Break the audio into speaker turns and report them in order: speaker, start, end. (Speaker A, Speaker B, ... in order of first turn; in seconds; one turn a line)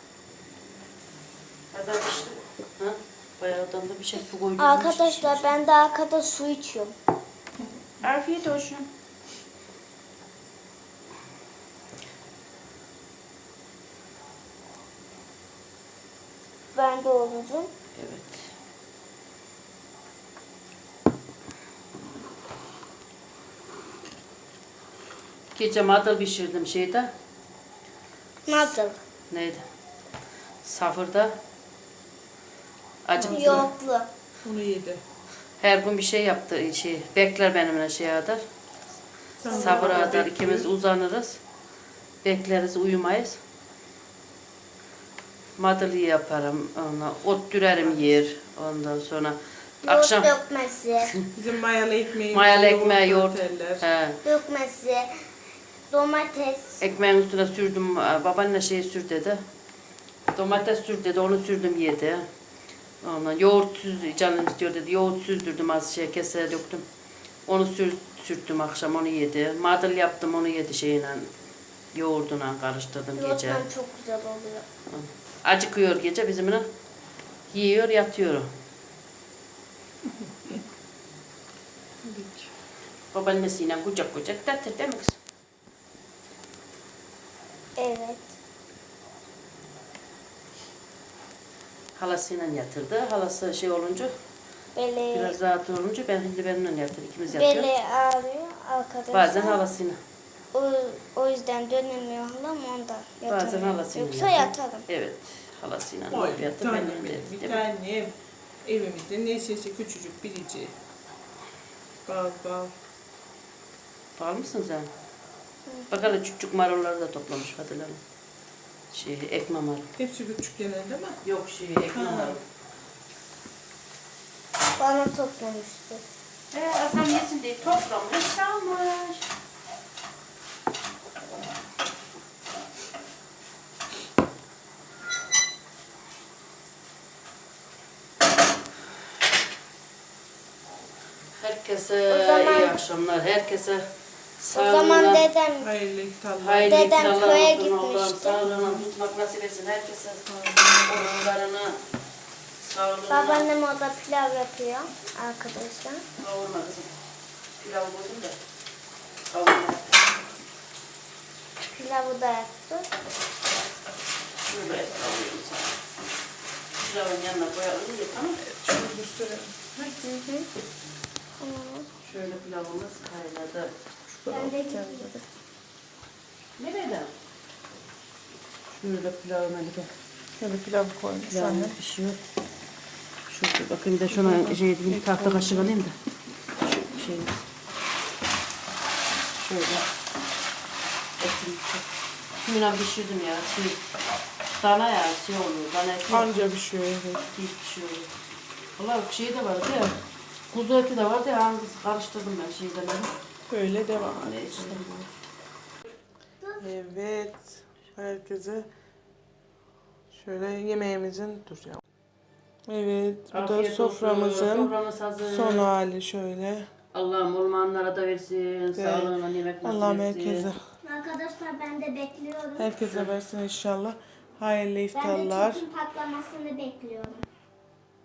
Speaker A: 1.7-5.5
Speaker B: 4.6-6.9
Speaker A: 8.0-8.9
Speaker B: 16.7-17.7
Speaker A: 17.9-18.5
Speaker A: 25.5-27.1
Speaker B: 28.4-29.0
Speaker A: 29.3-29.6
Speaker A: 30.6-31.3
Speaker A: 33.0-33.7
Speaker C: 33.2-33.7
Speaker B: 33.3-34.1
Speaker C: 34.4-35.0
Speaker A: 35.6-38.4
Speaker C: 39.4-40.7
Speaker A: 39.5-41.4
Speaker A: 42.2-43.4
Speaker A: 45.6-50.3
Speaker C: 47.8-48.2
Speaker B: 49.8-51.1
Speaker C: 51.3-53.9
Speaker A: 52.3-54.2
Speaker B: 54.2-55.1
Speaker B: 55.9-56.8
Speaker A: 56.8-59.4
Speaker A: 60.3-62.2
Speaker A: 63.0-66.8
Speaker A: 67.5-71.3
Speaker A: 71.9-73.6
Speaker B: 73.1-74.6
Speaker A: 74.9-76.6
Speaker A: 77.5-78.5
Speaker C: 82.0-82.5
Speaker A: 83.1-85.2
Speaker B: 87.8-88.3
Speaker A: 92.0-94.1
Speaker B: 94.7-95.3
Speaker A: 95.1-97.7
Speaker B: 97.3-99.6
Speaker A: 99.1-100.0
Speaker B: 100.5-104.8
Speaker A: 103.3-107.7
Speaker C: 106.1-108.1
Speaker C: 108.6-110.7
Speaker C: 112.0-112.7
Speaker A: 114.2-114.9
Speaker B: 115.7-116.0
Speaker A: 115.9-118.0
Speaker A: 118.9-119.9
Speaker C: 120.0-121.2
Speaker A: 121.2-122.4
Speaker C: 121.9-122.4
Speaker B: 124.8-126.0
Speaker A: 126.5-129.2
Speaker A: 141.3-143.8
Speaker B: 142.1-142.7
Speaker A: 144.4-145.3
Speaker B: 144.5-145.7
Speaker C: 145.6-147.5
Speaker A: 146.4-150.2
Speaker B: 146.7-148.5
Speaker C: 148.5-148.8
Speaker C: 150.3-151.1
Speaker A: 150.8-151.8
Speaker A: 152.6-153.5
Speaker B: 153.1-156.0
Speaker A: 156.2-156.9
Speaker A: 157.6-158.3
Speaker A: 159.3-160.0
Speaker B: 161.7-162.9
Speaker A: 164.4-165.8
Speaker A: 166.8-168.4
Speaker C: 168.4-170.1
Speaker B: 170.1-170.5
Speaker B: 171.4-171.9
Speaker A: 172.0-173.7
Speaker C: 174.1-175.2
Speaker B: 174.3-175.1
Speaker A: 176.6-177.1
Speaker A: 178.7-179.9
Speaker C: 180.4-181.8
Speaker A: 181.3-182.2
Speaker A: 183.3-185.9
Speaker C: 184.1-185.7
Speaker A: 186.6-187.4
Speaker A: 189.4-189.8
Speaker A: 191.2-191.8
Speaker A: 192.4-193.8
Speaker A: 194.6-196.3
Speaker C: 196.1-197.2
Speaker A: 197.3-198.1
Speaker A: 198.8-200.0
Speaker A: 200.5-203.1
Speaker C: 203.5-204.9
Speaker A: 204.0-205.1
Speaker C: 206.6-208.7
Speaker C: 210.1-211.8
Speaker C: 212.7-216.7
Speaker A: 213.3-215.7
Speaker A: 216.9-220.5
Speaker C: 218.8-220.6
Speaker B: 220.8-222.7
Speaker C: 222.6-225.6
Speaker A: 222.8-223.1
Speaker B: 224.9-227.2